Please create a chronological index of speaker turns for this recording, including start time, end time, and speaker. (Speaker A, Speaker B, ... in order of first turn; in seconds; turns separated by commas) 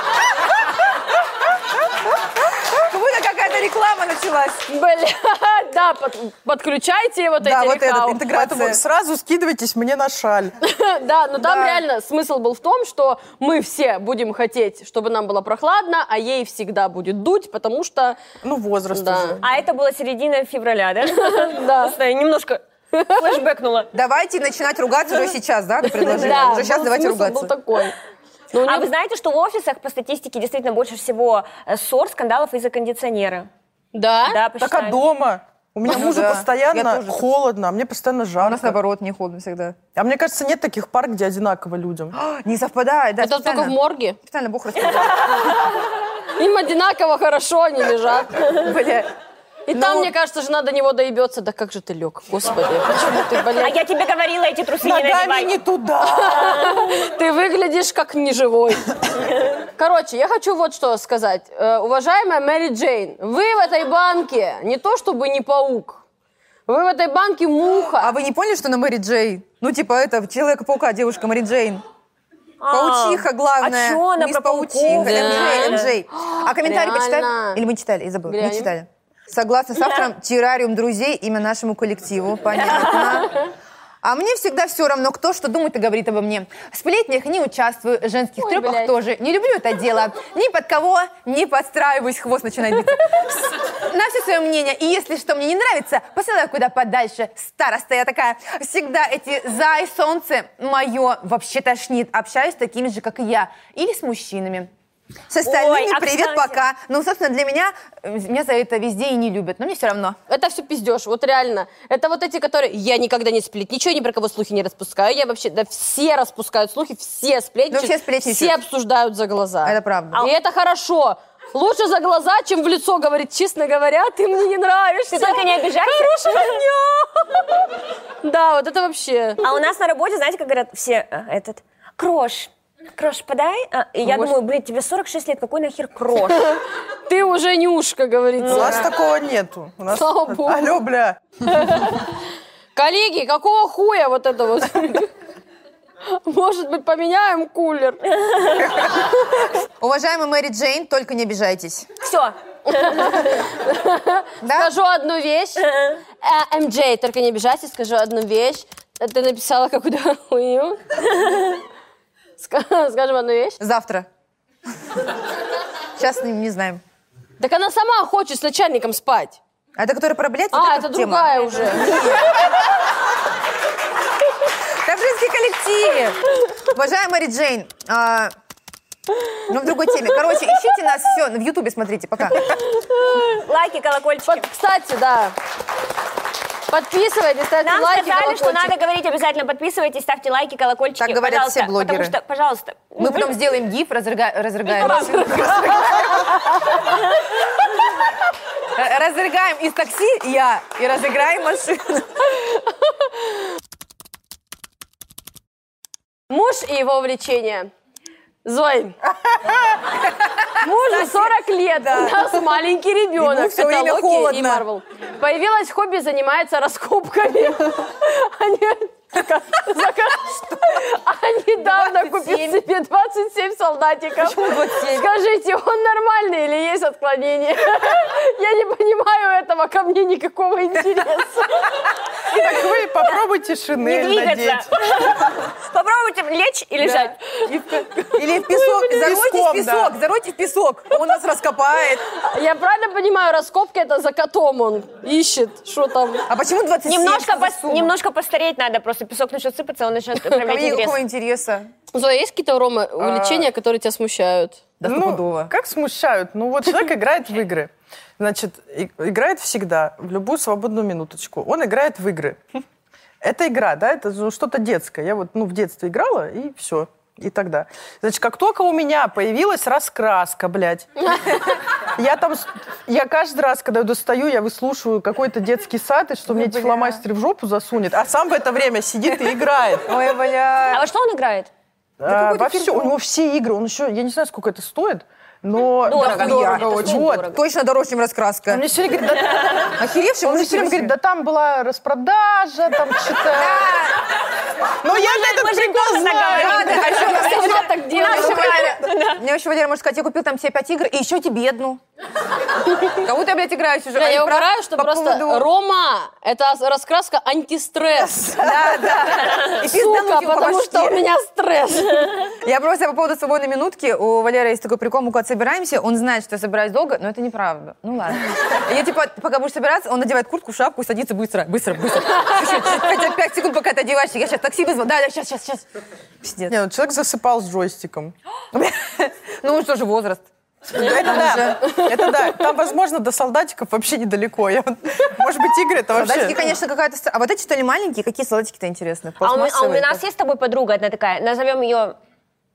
Speaker A: 2.6-4.6, Speaker B: 4.7-8.2, Speaker A: 7.4-8.8, Speaker C: 8.3-10.6, Speaker B: 10.6-18.2, Speaker A: 11.4-11.8, Speaker C: 18.4-19.6, Speaker B: 18.9-19.4, Speaker D: 19.4-23.9, Speaker B: 21.2-21.9, Speaker B: 22.9-23.4, Speaker A: 23.9-27.5, Speaker B: 25.8-27.9, Speaker B: 28.5-28.9, Speaker D: 28.6-33.5, Speaker B: 33.9-34.4, Speaker D: 34.3-35.0, Speaker C: 34.6-38.8, Speaker A: 35.8-37.2, Speaker A: 38.4-39.8, Speaker C: 39.9-42.1, Speaker A: 42.1-45.5, Speaker B: 43.2-44.2, Speaker B: 46.3-48.4, Speaker A: 48.6-49.1, Speaker B: 49.7-53.8, Speaker A: 49.7-50.1, Speaker D: 53.5-55.6, Speaker C: 54.8-56.6, Speaker B: 56.0-59.0, Speaker B: 59.8-66.0, Speaker B: 66.7-68.1, Speaker A: 68.0-71.8, Speaker D: 72.6-75.9, Speaker A: 72.7-83.4, Speaker B: 74.9-77.6, Speaker B: 78.3-78.7, Speaker D: 82.6-83.2, Speaker A: 84.0-104.7, Speaker B: 88.4-88.9, Speaker A: 105.3-110.2, Speaker D: 105.4-106.6, Speaker B: 110.3-127.6, Speaker A: 117.7-118.6, Speaker A: 119.6-120.2, Speaker D: 125.1-126.6, Speaker B: 128.2-129.4, Speaker D: 129.4-136.5, Speaker B: 134.1-134.3, Speaker B: 136.3-138.9, Speaker C: 138.4-141.2, Speaker B: 139.9-140.8, Speaker B: 141.4-142.2, Speaker B: 142.8-145.1, Speaker B: 146.1-148.0, Speaker A: 149.6-151.9, Speaker D: 152.0-153.2, Speaker B: 152.8-155.6, Speaker A: 154.4-154.7, Speaker D: 155.7-156.0, Speaker B: 156.2-161.0, Speaker B: 162.4-163.6, Speaker A: 163.6-164.1, Speaker A: 166.0-166.8, Speaker B: 167.4-169.4, Speaker A: 169.8-172.3, Speaker B: 170.5-172.2, Speaker A: 174.7-178.3, Speaker A: 179.5-182.6, Speaker B: 182.8-183.4, Speaker D: 183.2-184.4, Speaker B: 184.2-185.3, Speaker B: 186.7-188.7, Speaker D: 187.6-193.3, Speaker A: 191.0-192.1, Speaker A: 193.0-195.9, Speaker B: 194.8-196.8, Speaker A: 198.7-202.3, Speaker B: 206.3-207.7, Speaker B: 208.4-209.0, Speaker A: 210.0-212.6, Speaker B: 210.6-231.8, Speaker A: 213.2-214.6, Speaker A: 220.2-220.8, Speaker A: 221.6-222.6, Speaker A: 224.2-225.1, Speaker C: 232.3-234.7, Speaker D: 233.8-237.2, Speaker B: 236.9-238.8, Speaker A: 237.4-242.0, Speaker C: 238.9-239.9, Speaker B: 242.1-246.2, Speaker A: 246.3-247.9, Speaker D: 246.8-251.0, Speaker A: 250.3-251.7, Speaker B: 251.9-254.6, Speaker C: 253.0-253.5, Speaker A: 254.8-255.5, Speaker C: 254.8-262.4, Speaker C: 263.2-271.4, Speaker C: 271.9-279.9, Speaker A: 276.3-277.0, Speaker A: 279.9-280.8, Speaker D: 280.7-281.5, Speaker C: 282.0-287.3, Speaker A: 282.1-282.9, Speaker D: 285.8-287.4, Speaker A: 285.9-288.6, Speaker C: 288.5-293.7, Speaker A: 289.8-290.9, Speaker A: 293.3-294.0, Speaker C: 294.8-297.0, Speaker D: 294.8-299.2, Speaker A: 296.3-301.8, Speaker B: 296.8-298.7, Speaker A: 302.9-305.5, Speaker B: 303.9-308.2, Speaker A: 308.0-311.0, Speaker B: 309.5-312.1, Speaker A: 312.4-325.6, Speaker A: 326.2-326.5, Speaker C: 326.5-328.1, Speaker A: 328.5-331.9, Speaker C: 330.7-336.5, Speaker A: 335.9-340.0, Speaker D: 339.2-341.9